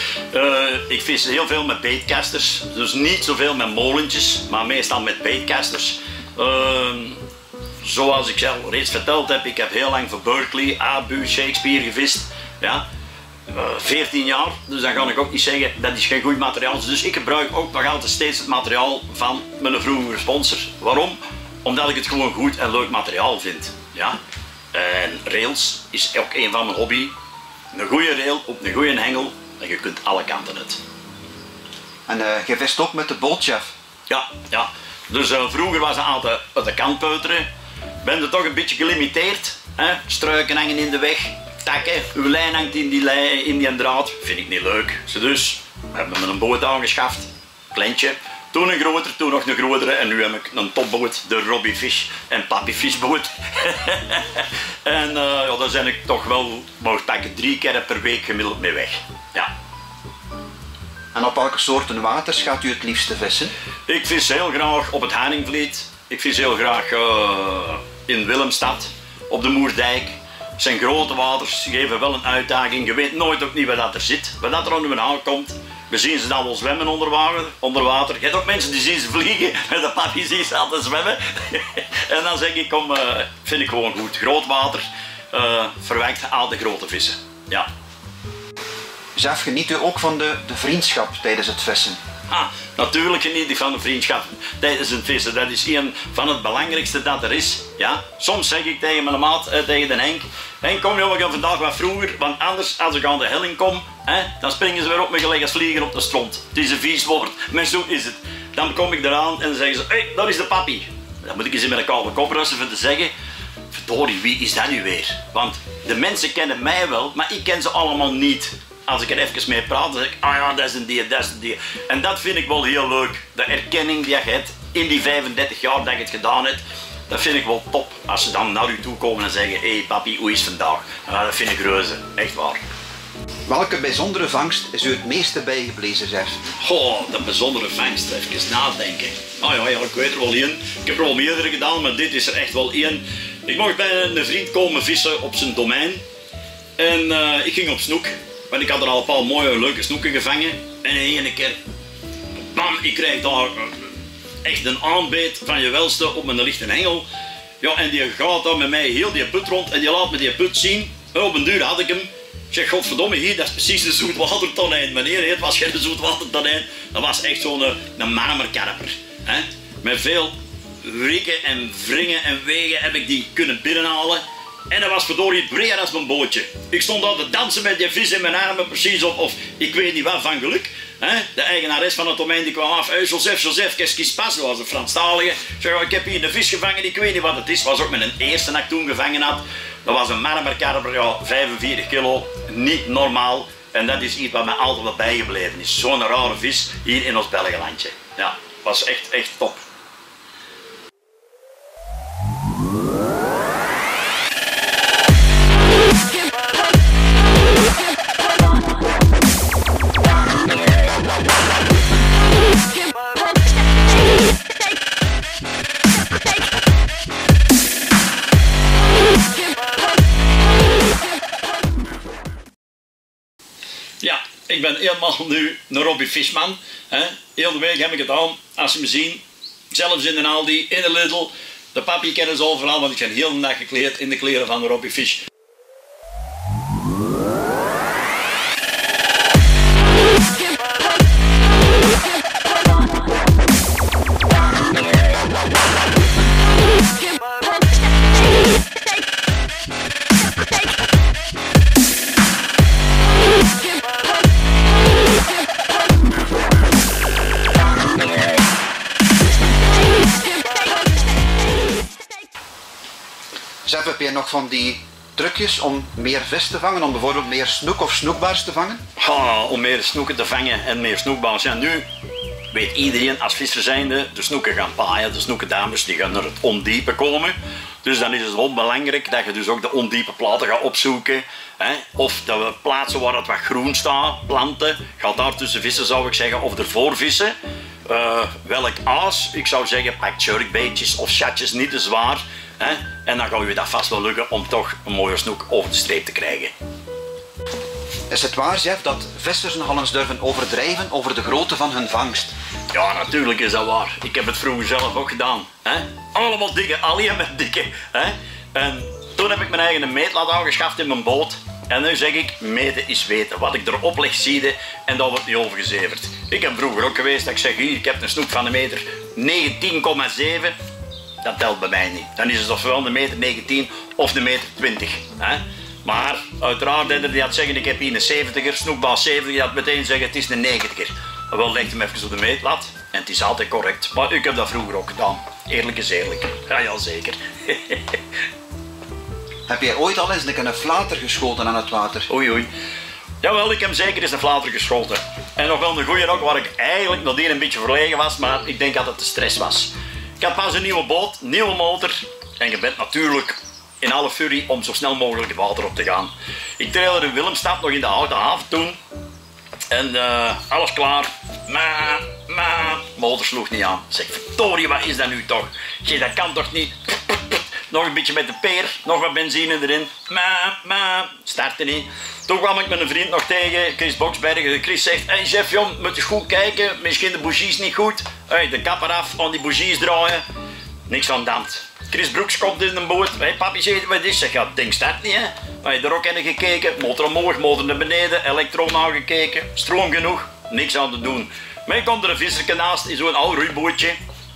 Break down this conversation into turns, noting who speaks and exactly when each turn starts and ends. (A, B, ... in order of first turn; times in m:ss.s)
0:00.3-0:07.2 A
0:07.8-0:12.8 A
0:13.5-0:24.2 A
0:24.7-0:27.1 A
0:27.7-0:30.8 A
0:32.1-0:33.7 B
0:34.1-0:37.5 A
0:38.0-0:59.5 A
1:01.1-1:03.5 B
1:03.9-1:27.7 A
1:29.2-1:32.0 B
1:32.3-1:53.1 A
1:53.7-2:12.6 A
2:13.5-2:16.4 B
2:16.6-2:26.0 A
2:26.8-2:31.6 A
2:32.5-2:37.0 A
2:37.6-3:19.6 A
3:44.0-3:55.2 A
4:23.6-4:28.8 B
4:29.0-4:31.8 A
4:32.5-4:47.3 A
4:47.8-4:56.5 A
4:58.1-5:02.3 B
5:02.7-5:20.5 A
5:21.2-5:38.0 A
5:39.5-5:42.1 B
5:42.1-5:42.5 A
5:43.2-5:58.8 A
5:59.7-6:20.2 A
6:20.9-6:34.0 A